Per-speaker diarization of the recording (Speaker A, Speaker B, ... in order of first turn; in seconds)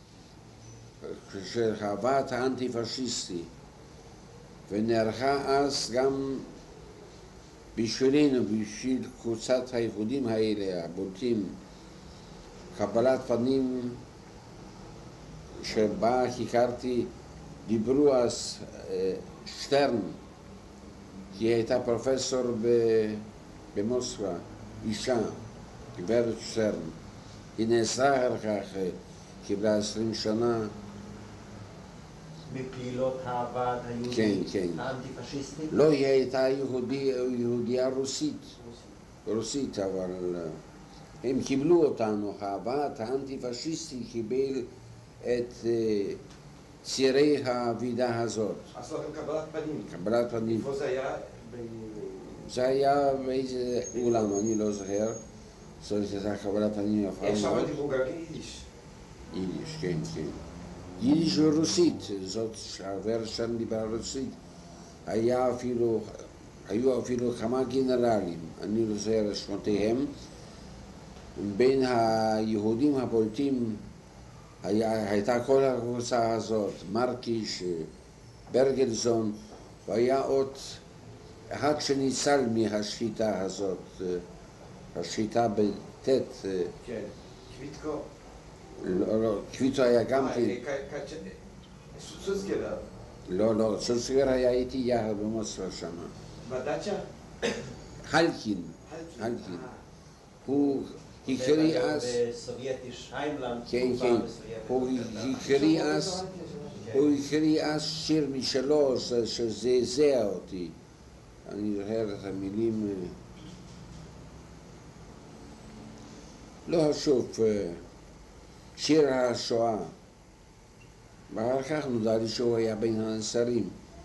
Speaker A: 1.0-3.5, 4.7-6.5, 7.7-11.6, 12.7-14.0, 15.6-17.1, 17.6-20.2, 21.3-25.4, 25.9-26.9, 27.6-30.7, 34.1-34.9, 35.7-38.6, 39.2-40.6, 41.2-44.7, 45.2-46.2, 46.8-48.7, 49.9-50.7, 52.4-55.2, 55.8-57.8, 59.3-60.4, 61.0-64.4, 65.0-70.1, 71.3-73.8, 74.6-77.9, 78.5-80.8, 81.5-84.2, 84.9-86.7, 88.8-90.6, 93.3-96.1, 98.0-99.7, 100.4-102.2, 103.7-106.2, 106.9-110.8, 111.5-113.2, 116.7-117.8, 118.8-119.9, 121.3-123.8
Speaker B: 32.5-35.7, 101.2-105.5, 106.8-107.1
Speaker C: 48.7-52.4, 53.9-54.3, 57.2-58.6, 86.8-88.1, 90.1-91.4, 91.9-92.8, 96.4-97.7, 98.8-99.8, 105.3-107.0